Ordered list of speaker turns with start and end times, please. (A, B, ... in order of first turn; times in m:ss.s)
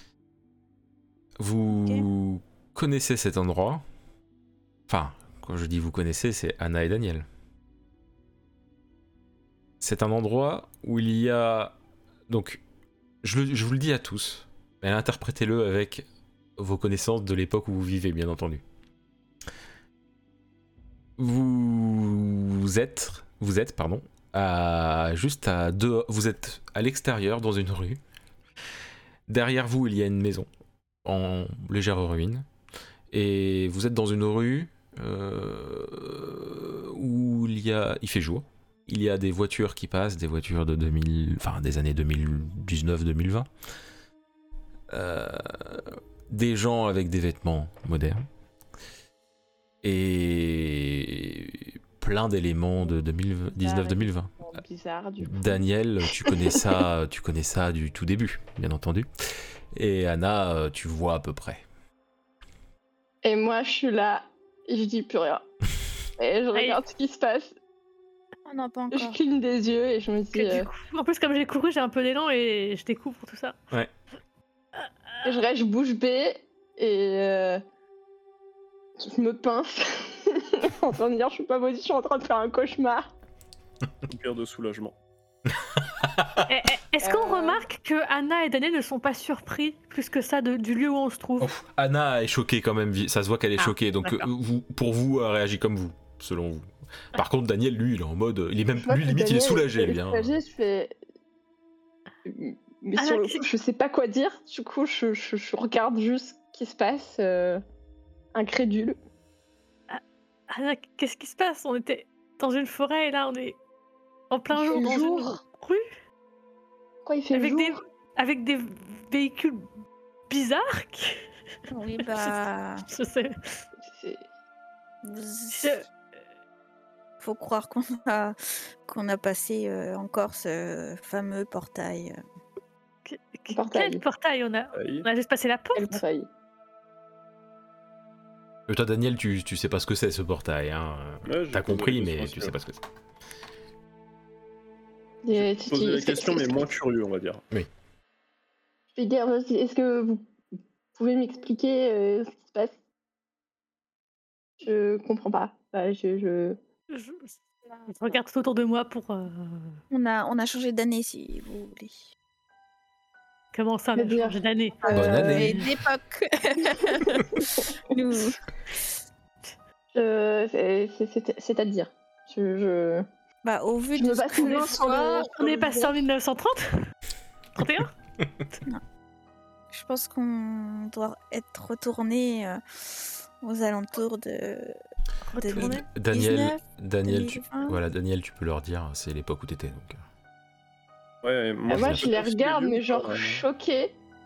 0:01.4-0:03.8 A
0:01.7-0:02.0 B
0:04.9-0:07.3 A
0:09.8-0:11.8 A
0:12.3-0:12.6 A
0:13.2-0:18.6 A
0:21.2-0:28.0 A
0:29.3-0:30.5 A
0:31.0-0:32.5 A
0:33.1-0:43.5 A
0:44.9-0:48.2 A
0:49.8-0:54.3 A
0:53.5-0:55.6 C
0:55.2-0:59.1 A
0:56.2-0:56.6 C
0:59.7-1:01.6 A
1:03.2-1:05.4 C
1:06.2-1:07.5 C
1:06.5-1:06.8 D
1:08.4-1:09.2 B
1:08.9-1:10.7 C
1:10.3-1:13.6 D
1:15.2-1:17.6 C
1:19.0-1:23.1 C
1:24.0-1:25.0 E
1:25.6-1:26.5 A
1:26.5-1:31.5 D
1:27.0-1:27.6 C
1:31.4-1:40.3 A
1:33.6-1:34.3 D
1:38.8-1:40.9 C
1:42.2-1:47.6 C
1:43.0-1:43.4 D
1:48.3-1:49.0 C
1:49.9-1:53.6 D
1:54.3-1:55.8 D
1:54.5-1:55.4 C
1:57.0-1:57.8 C
1:57.3-1:59.6 D
2:00.3-2:01.2 D
2:01.7-2:02.8 B
2:02.0-2:02.4 D
2:02.9-2:03.6 D
2:03.8-2:04.2 C
2:05.0-2:05.8 B
2:05.5-2:05.8 D
2:07.2-2:12.2 B
2:13.0-2:16.0 D
2:13.5-2:14.0 C
2:14.7-2:15.1 E
2:15.7-2:16.3 C
2:18.7-2:22.8 A
2:21.2-2:22.5 E
2:25.2-2:26.7 C
2:25.3-2:27.4 E
2:28.9-2:30.2 C
2:30.9-2:32.8 C
2:34.6-2:36.6 C
2:36.9-2:39.8 D
2:39.9-2:42.0 B
2:43.5-2:45.6 D
2:44.0-2:45.5 C
2:44.9-2:48.8 B
2:44.9-2:45.7 A
2:46.7-2:47.6 C
2:49.9-2:53.0 C
2:53.4-2:55.3 B
2:53.9-2:56.0 C
2:54.4-2:56.9 D
2:57.5-2:57.9 D
2:59.7-3:04.8 B
3:05.3-3:05.8 D
3:05.4-3:07.8 B
3:05.6-3:10.0 A
3:11.2-3:13.4 E
3:11.7-3:12.1 A
3:11.7-3:13.9 C